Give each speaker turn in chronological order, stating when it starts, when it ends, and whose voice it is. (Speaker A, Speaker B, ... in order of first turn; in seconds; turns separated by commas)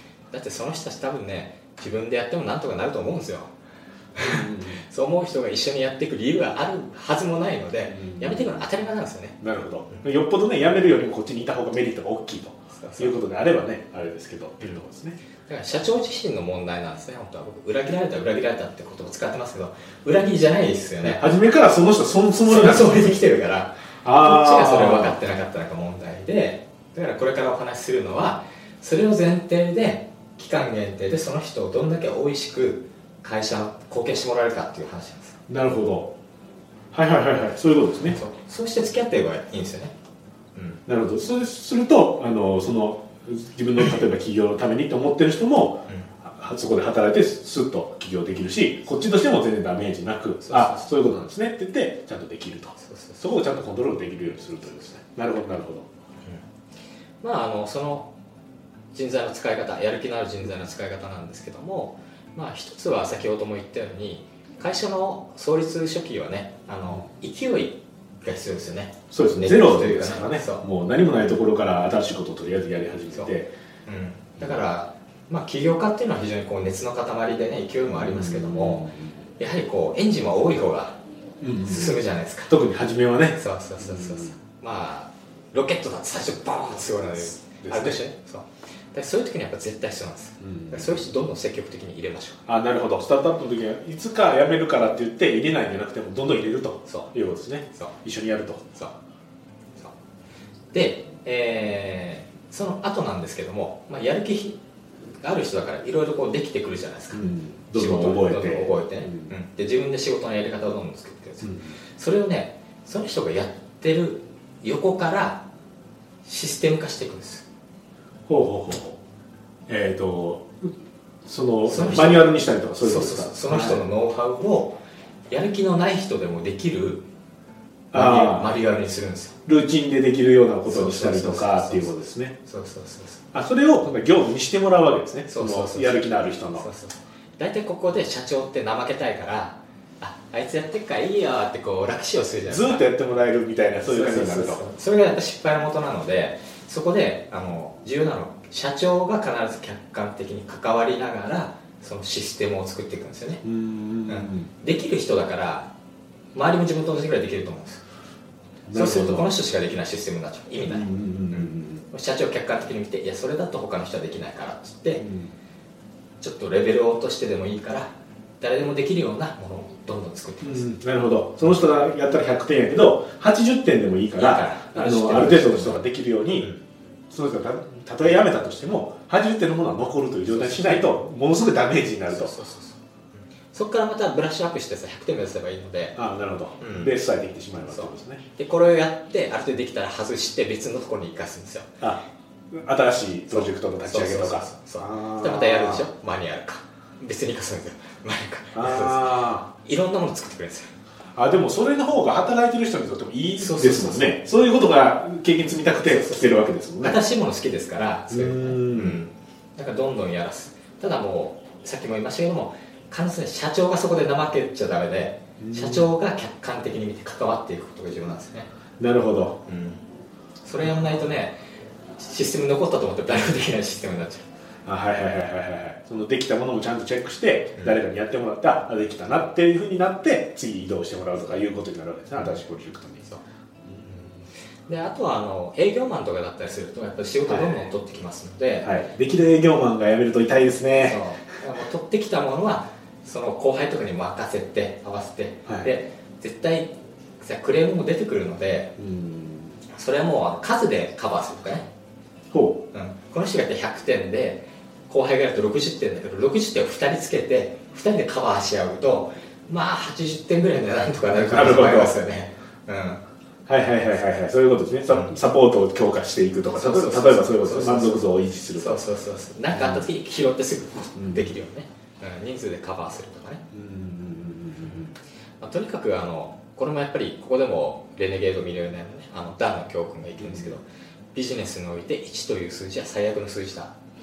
Speaker A: 0.3-3.5, Speaker A: 4.2-9.4, Speaker B: 4.2-4.8, Speaker B: 7.9-8.7, Speaker B: 9.4-15.2, Speaker A: 12.8-13.1, Speaker A: 15.4-21.2, Speaker B: 21.0-23.2, Speaker A: 22.4-35.4, Speaker B: 24.0-25.2, Speaker B: 35.5-36.1, Speaker B: 36.9-38.2, Speaker A: 38.1-39.9, Speaker A: 40.5-40.8, Speaker B: 40.9-55.9, Speaker A: 50.4-50.9, Speaker A: 52.8-53.2, Speaker A: 57.2-58.1, Speaker A: 58.9-70.6, Speaker B: 69.1-73.5, Speaker A: 73.8-78.9, Speaker B: 74.4-74.7, Speaker B: 78.0-79.2, Speaker A: 79.4-81.0, Speaker B: 81.4-84.3, Speaker A: 81.6-82.5, Speaker A: 83.3-92.4, Speaker B: 87.4-88.0, Speaker B: 90.4-91.0, Speaker B: 92.5-98.7, Speaker A: 100.7-104.6, Speaker A: 105.2-115.4, Speaker B: 107.1-109.3, Speaker B: 111.4-111.8, Speaker A: 116.2-117.4, Speaker B: 118.3-119.0, Speaker B: 119.7-120.7, Speaker B: 121.2-123.8, Speaker A: 121.7-122.3, Speaker A: 122.8-124.8, Speaker A: 125.3-127.0, Speaker B: 127.9-128.6, Speaker A: 127.9-129.3, Speaker B: 129.4-132.3, Speaker A: 130.7-133.2, Speaker B: 133.3-136.7, Speaker A: 135.3-142.8, Speaker B: 142.5-144.6, Speaker A: 143.8-153.4, Speaker B: 153.4-154.5, Speaker A: 154.1-155.7, Speaker A: 156.3-157.8, Speaker B: 158.7-159.3, Speaker A: 158.7-165.0, Speaker B: 160.6-161.8, Speaker B: 165.0-165.3, Speaker A: 166.2-170.7, Speaker B: 170.4-176.5, Speaker A: 174.1-176.6, Speaker B: 177.1-182.3, Speaker A: 180.3-180.9, Speaker A: 182.1-182.8, Speaker A: 183.5-185.9, Speaker B: 185.9-188.2, Speaker A: 186.6-186.9, Speaker A: 187.7-191.7, Speaker B: 191.8-195.9, Speaker A: 193.3-200.7, Speaker B: 198.5-199.5, Speaker B: 201.1-207.0, Speaker A: 203.4-204.2, Speaker A: 205.8-218.5, Speaker B: 208.1-209.0, Speaker B: 215.4-215.9, Speaker B: 218.8-219.4, Speaker A: 219.4-219.8, Speaker A: 220.4-221.4, Speaker B: 220.6-221.0, Speaker A: 222.0-224.3, Speaker B: 224.7-233.1, Speaker A: 234.7-238.7, Speaker B: 237.2-237.7, Speaker B: 238.6-241.0, Speaker A: 240.7-248.7, Speaker B: 245.4-245.7, Speaker B: 248.8-249.6, Speaker A: 249.7-251.7, Speaker B: 252.3-252.6, Speaker A: 252.7-263.0, Speaker B: 261.1-262.0, Speaker B: 263.5-268.8, Speaker A: 264.9-265.2, Speaker A: 266.4-273.4, Speaker B: 269.5-269.9, Speaker B: 270.9-271.3, Speaker B: 273.5-274.9, Speaker A: 275.4-283.7, Speaker B: 280.2-280.6